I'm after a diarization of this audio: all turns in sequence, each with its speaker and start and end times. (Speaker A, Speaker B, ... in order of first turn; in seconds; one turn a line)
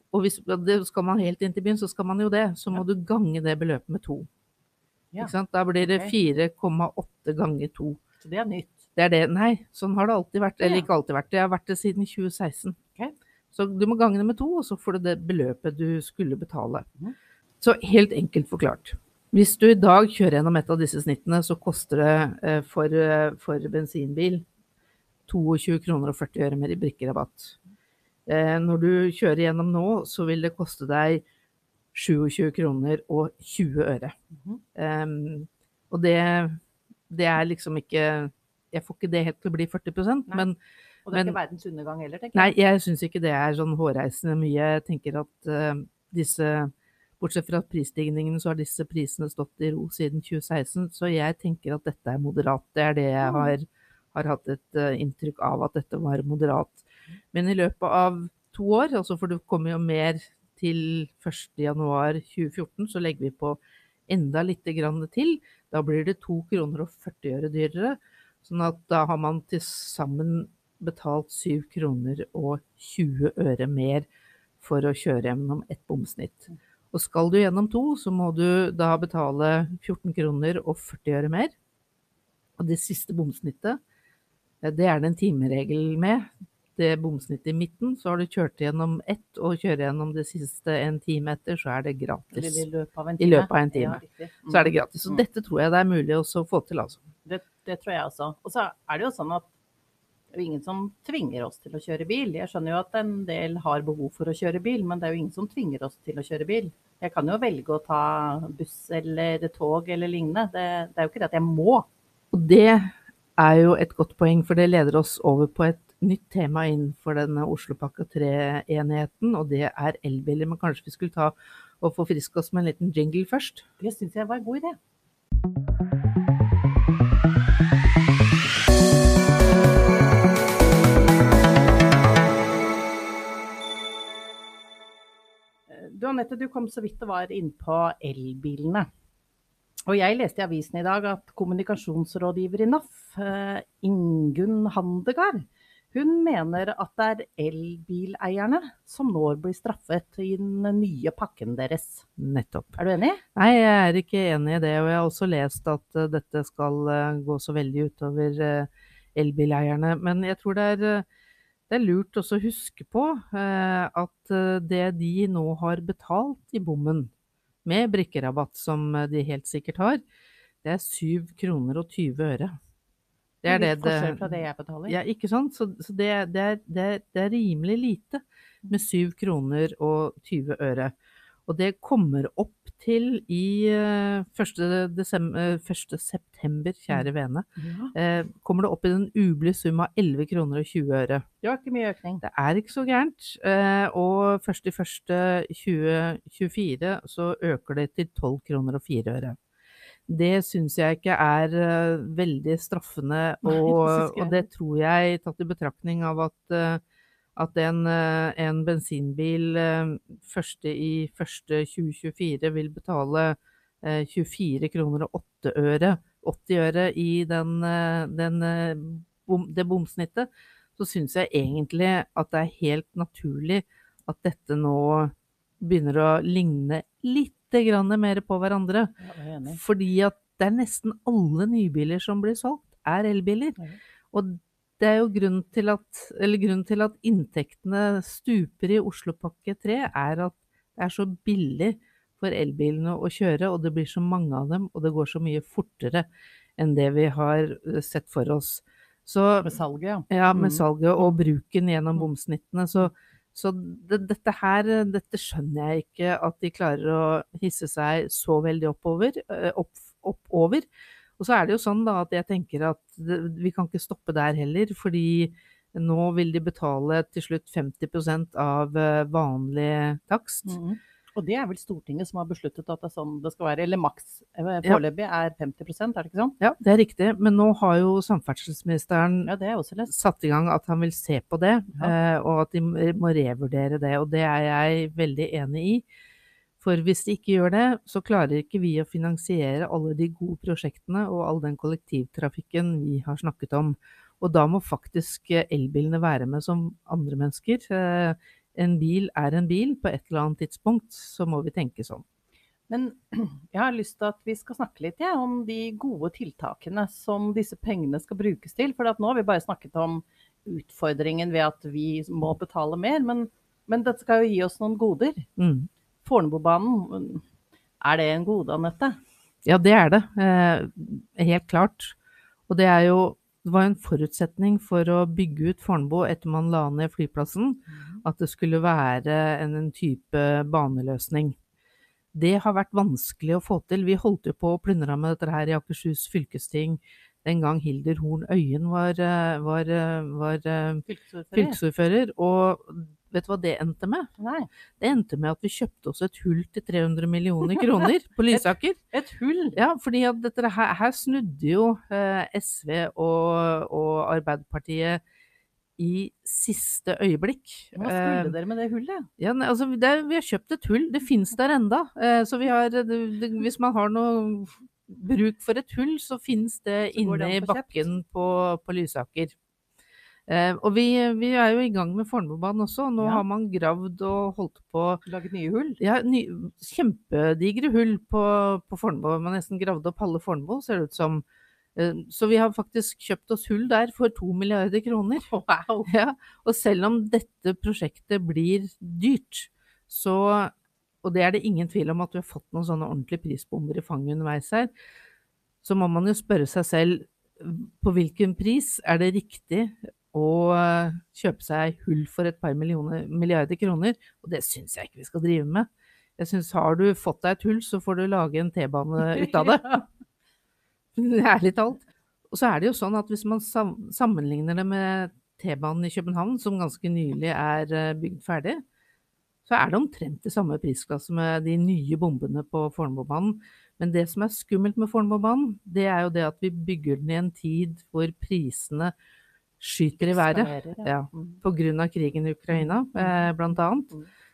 Speaker A: 0.1-4.3
Speaker B: 5.1-6.1
Speaker A: 5.2-8.0
Speaker B: 8.2-8.9
Speaker A: 9.0-12.8
Speaker B: 10.6-10.9
Speaker A: 13.5-16.9
Speaker A: 17.6-24.4
Speaker A: 25.3-27.6
Speaker A: 28.3-31.2
Speaker A: 31.9-34.1
Speaker A: 34.8-40.6
Speaker B: 41.1-42.5
Speaker A: 41.1-41.4
Speaker A: 42.4-74.1
Speaker B: 53.2-53.5
Speaker A: 74.6-81.5
Speaker A: 82.6-83.8
Speaker A: 84.6-92.7
Speaker B: 92.3-95.2
Speaker A: 93.2-97.0
Speaker B: 97.2-99.5
Speaker B: 100.3-111.9
Speaker A: 112.3-123.7
Speaker B: 123.8-124.8
Speaker B: 135.7-138.9
Speaker B: 139.9-152.1
Speaker A: 152.2-152.8
Speaker B: 152.8-153.2
Speaker A: 153.4-161.1
Speaker A: 161.7-167.1
Speaker A: 167.7-170.0
Speaker A: 170.6-172.6
Speaker A: 173.4-180.9
Speaker B: 173.5-175.0
Speaker A: 181.5-191.2
Speaker B: 186.9-187.9
Speaker B: 191.4-192.2
Speaker A: 192.2-199.4
Speaker A: 200.1-206.8
Speaker B: 203.4-204.4
Speaker A: 207.4-228.9
Speaker B: 229.0-229.6
Speaker A: 229.5-233.6
Speaker A: 234.1-249.5
Speaker B: 249.4-251.2
Speaker A: 250.1-270.6
Speaker B: 270.5-276.4
Speaker A: 276.4-279.3
Speaker B: 279.2-279.9
Speaker A: 279.9-285.9
Speaker A: 286.6-302.0
Speaker B: 302.7-315.3
Speaker A: 315.4-315.7
Speaker B: 316.0-317.2
Speaker B: 317.8-319.0
Speaker A: 319.4-322.0
Speaker A: 322.5-331.4
Speaker B: 327.7-328.0
Speaker A: 332.1-344.1
Speaker B: 340.9-341.6
Speaker B: 344.2-344.5
Speaker A: 344.8-348.8
Speaker B: 348.3-349.6
Speaker A: 349.6-355.0
Speaker A: 355.8-358.4
Speaker B: 357.8-359.1
Speaker A: 359.2-369.4
Speaker B: 366.9-367.9
Speaker A: 370.3-375.0
Speaker B: 373.0-373.2
Speaker B: 375.1-375.8
Speaker A: 375.8-381.2
Speaker A: 381.8-385.3
Speaker B: 385.2-385.9
Speaker A: 385.9-394.7
Speaker A: 395.6-409.8
Speaker A: 410.9-418.6
Speaker A: 419.5-428.9
Speaker A: 429.6-433.9
Speaker B: 430.0-431.4
Speaker B: 432.5-434.1